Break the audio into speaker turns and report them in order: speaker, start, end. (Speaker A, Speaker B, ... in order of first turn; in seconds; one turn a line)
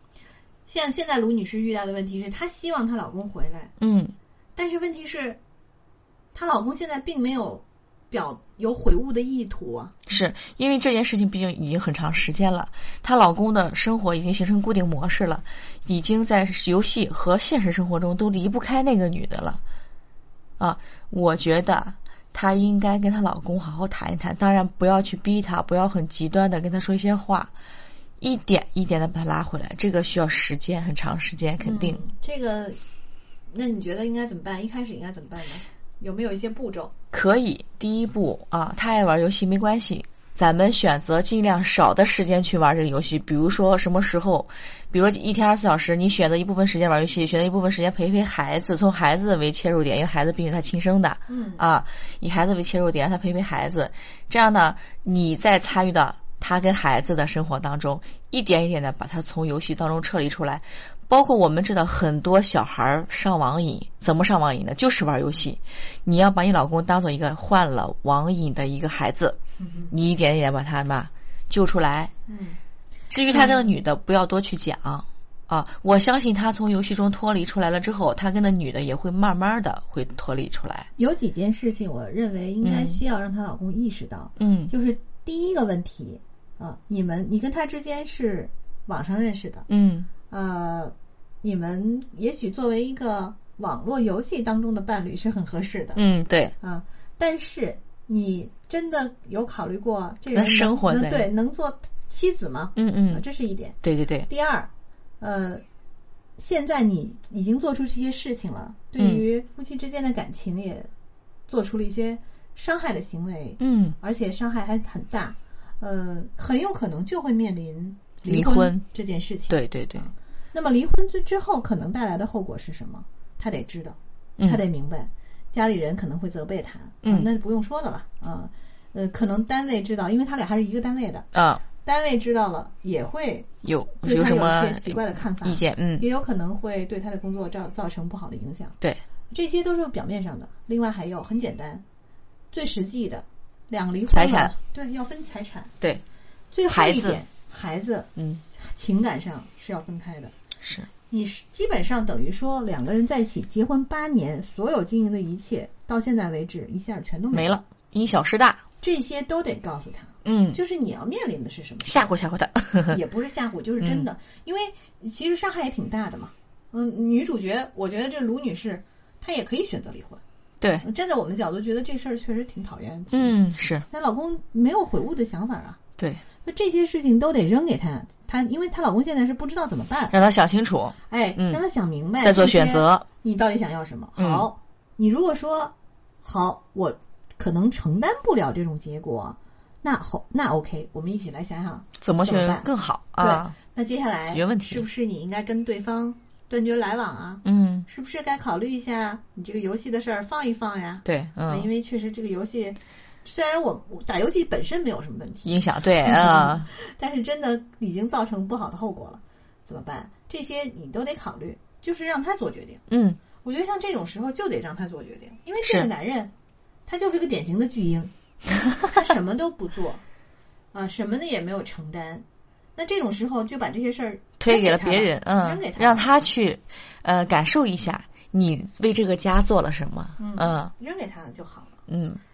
Speaker A: 0.7-3.7
Speaker B: 3.8-4.1
Speaker A: 4.6-5.4
Speaker A: 6.3-9.9
Speaker B: 10.1-19.6
Speaker B: 20.6-27.5
Speaker B: 28.2-32.0
Speaker A: 31.6-32.8
Speaker A: 33.5-36.9
Speaker B: 37.1-69.4
Speaker A: 51.3-51.6
Speaker A: 69.6-69.9
Speaker B: 69.9-72.1
Speaker A: 72.3-72.6
Speaker B: 73.1-80.9
Speaker A: 73.3-73.7
Speaker A: 81.0-89.7
Speaker B: 82.6-83.0
Speaker B: 84.4-84.7
Speaker B: 89.7-90.1
Speaker A: 90.3-96.0
Speaker B: 96.0-96.5
Speaker A: 96.6-105.6
Speaker B: 100.3-101.3
Speaker B: 102.8-103.2
Speaker B: 103.8-104.3
Speaker A: 106.4-110.9
Speaker B: 109.0-109.2
Speaker A: 111.5-133.5
Speaker B: 113.6-114.0
Speaker B: 118.2-118.8
Speaker B: 119.5-120.1
Speaker B: 124.4-124.6
Speaker B: 131.3-131.6
Speaker B: 133.6-136.1
Speaker A: 134.0-138.8
Speaker A: 139.3-141.8
Speaker A: 142.5-145.7
Speaker B: 144.1-144.5
Speaker A: 146.5-150.3
Speaker B: 146.7-147.2
Speaker B: 148.2-148.4
Speaker B: 150.6-150.9
Speaker A: 151.1-157.6
Speaker B: 157.3-158.6
Speaker A: 158.8-162.1
Speaker B: 160.2-160.6
Speaker B: 161.8-163.0
Speaker A: 162.9-170.2
Speaker B: 163.8-164.1
Speaker B: 170.6-170.9
Speaker A: 170.8-175.8
Speaker B: 173.1-173.8
Speaker A: 176.4-180.2
Speaker B: 180.1-181.6
Speaker A: 181.1-192.7
Speaker B: 182.2-183.1
Speaker B: 184.2-184.5
Speaker B: 192.0-193.5
Speaker A: 193.2-212.8
Speaker B: 194.3-194.8
Speaker B: 197.4-197.9
Speaker B: 201.1-201.7
Speaker B: 205.4-206.7
Speaker B: 212.9-213.2
Speaker A: 213.4-216.3
Speaker B: 215.6-215.9
Speaker A: 216.9-218.1
Speaker A: 218.7-220.0
Speaker A: 220.7-222.2
Speaker A: 222.8-226.1
Speaker B: 224.4-230.7
Speaker A: 230.2-231.8
Speaker B: 231.9-232.2